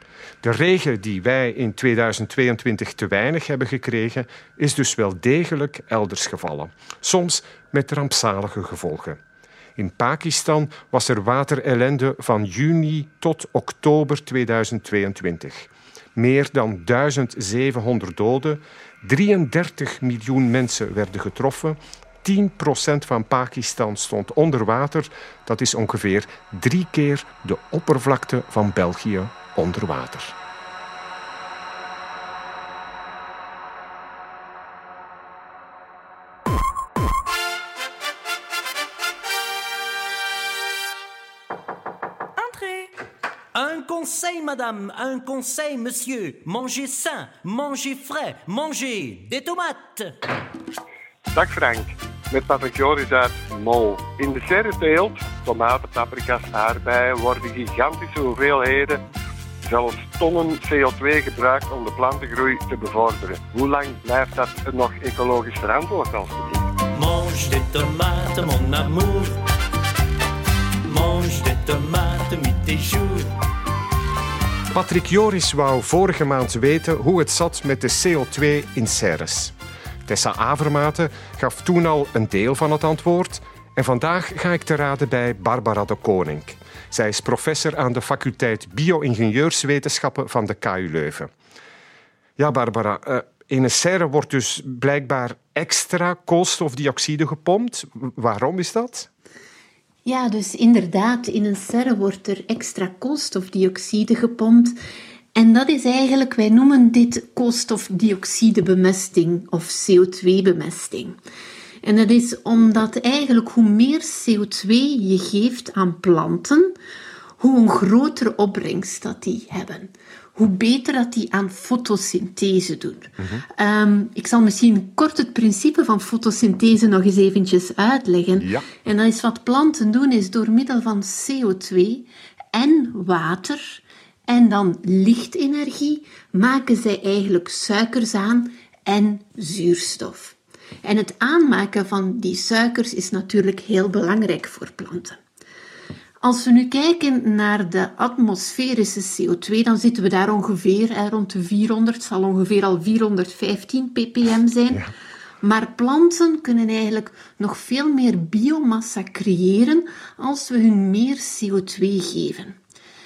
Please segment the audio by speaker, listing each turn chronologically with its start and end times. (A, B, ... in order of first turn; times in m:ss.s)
0:00.4-0:09.2 A
0:09.8-0:30.3 A
0:43.5-0:50.2 B
0:51.3-0:59.0 C
0:59.6-1:06.6 C
1:06.9-1:09.4 B
1:10.8-1:13.3 B
1:14.7-1:19.6 A
1:20.1-1:31.3 A
1:32.4-1:39.1 A
1:40.0-1:44.8 D
1:45.3-1:51.2 D
1:51.8-1:56.7 D
1:57.4-2:25.2 D
2:03.2-2:03.4 A
2:08.4-2:08.7 A
2:26.2-2:34.9 D
2:35.4-2:42.6 D